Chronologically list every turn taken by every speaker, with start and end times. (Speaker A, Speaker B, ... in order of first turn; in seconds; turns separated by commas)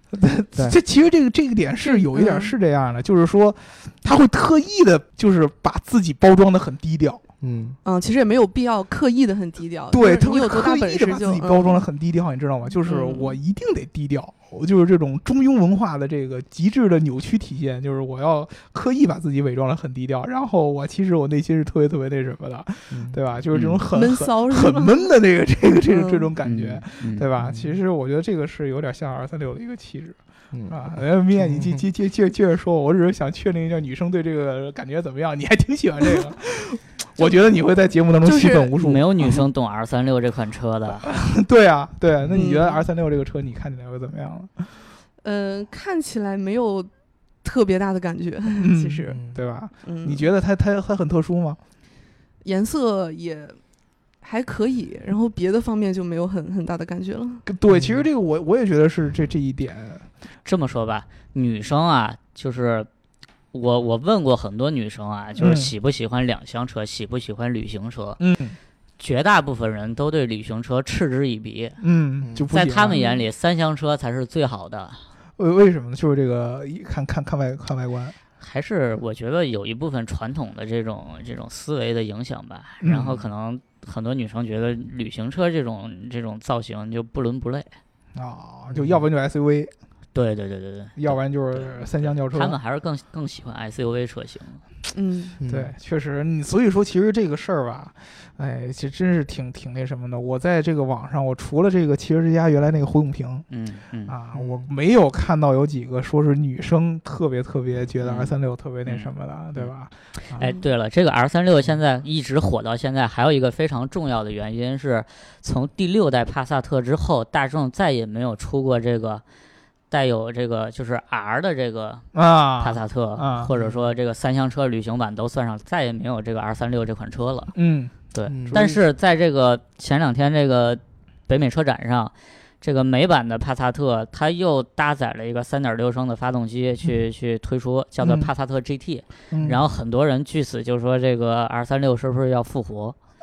Speaker A: 0.1-7.2, Speaker B: 1.8-2.5, Speaker C: 7.4-7.8, Speaker B: 7.8-11.8, Speaker A: 9.9-39.4, Speaker B: 12.8-13.4, Speaker C: 22.9-23.2, Speaker D: 23.5-23.8, Speaker B: 23.9-25.1, Speaker B: 25.9-26.3, Speaker D: 26.4-27.3, Speaker C: 27.4-27.7, Speaker C: 30.5-30.8, Speaker C: 31.4-31.9, Speaker B: 37.2-37.5, Speaker B: 38.2-38.7, Speaker D: 38.8-41.1, Speaker A: 41.0-44.7, Speaker C: 42.2-42.5, Speaker B: 42.3-42.9, Speaker B: 45.2-46.9, Speaker B: 47.4-49.2, Speaker A: 48.6-51.6, Speaker B: 49.8-50.3, Speaker B: 52.4-53.6, Speaker B: 54.2-57.4, Speaker A: 57.5-60.0, Speaker C: 57.7-58.0, Speaker D: 60.5-62.9, Speaker D: 63.5-68.2, Speaker A: 65.4-65.7, Speaker A: 68.2-68.6, Speaker D: 69.0-71.8, Speaker A: 71.8-73.0, Speaker C: 72.2-72.5, Speaker D: 72.5-75.0, Speaker B: 72.9-73.2, Speaker A: 75.4-78.2, Speaker D: 78.4-87.7, Speaker A: 82.8-83.2, Speaker A: 88.2-89.7, Speaker C: 88.7-89.0, Speaker D: 90.1-94.6, Speaker A: 91.0-92.6, Speaker B: 94.9-95.4, Speaker C: 95.4-95.7, Speaker A: 95.5-103.5, Speaker D: 103.5-104.2, Speaker A: 104.1-110.5, Speaker C: 104.3-104.6, Speaker D: 108.0-108.3, Speaker D: 108.8-109.7, Speaker D: 110.3-119.2, Speaker D: 119.9-122.1, Speaker A: 122.1-123.5, Speaker D: 122.6-127.5, Speaker C: 123.5-123.8, Speaker A: 127.5-127.9, Speaker D: 128.1-143.0, Speaker C: 128.3-128.8, Speaker A: 138.0-138.3, Speaker A: 139.3-139.6